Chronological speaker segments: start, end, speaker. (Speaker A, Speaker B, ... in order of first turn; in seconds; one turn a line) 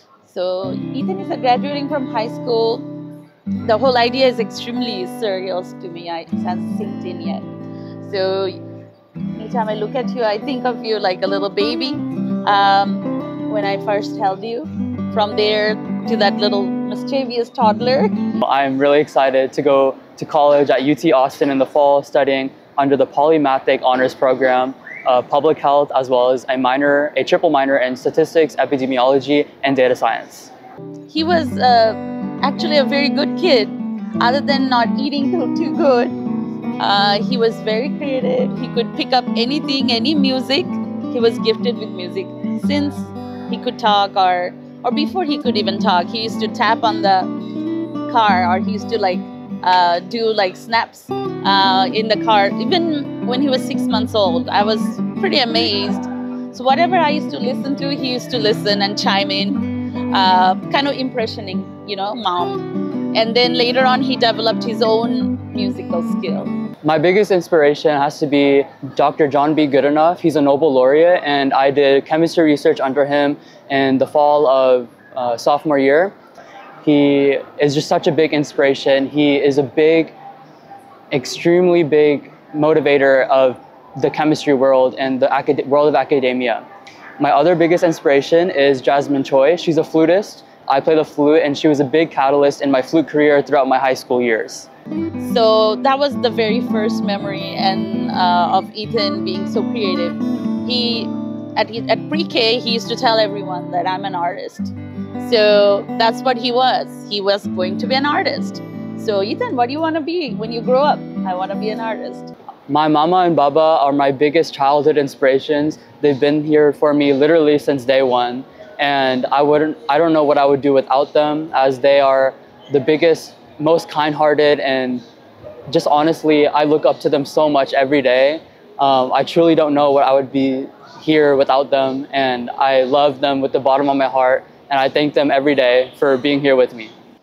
Speaker A: 0.3-2.9
Speaker A: 3.6-7.5
Speaker A: 8.0-8.6
Speaker A: 9.4-18.3
Speaker B: 18.4-30.5
Speaker A: 31.1-36.2
Speaker A: 36.8-47.3
Speaker A: 48.1-66.5
Speaker B: 66.8-76.1
Speaker B: 76.8-80.2
Speaker B: 81.1-86.7
Speaker B: 87.2-94.7
Speaker A: 95.2-112.3
Speaker B: 112.7-125.0
Speaker B: 125.7-136.9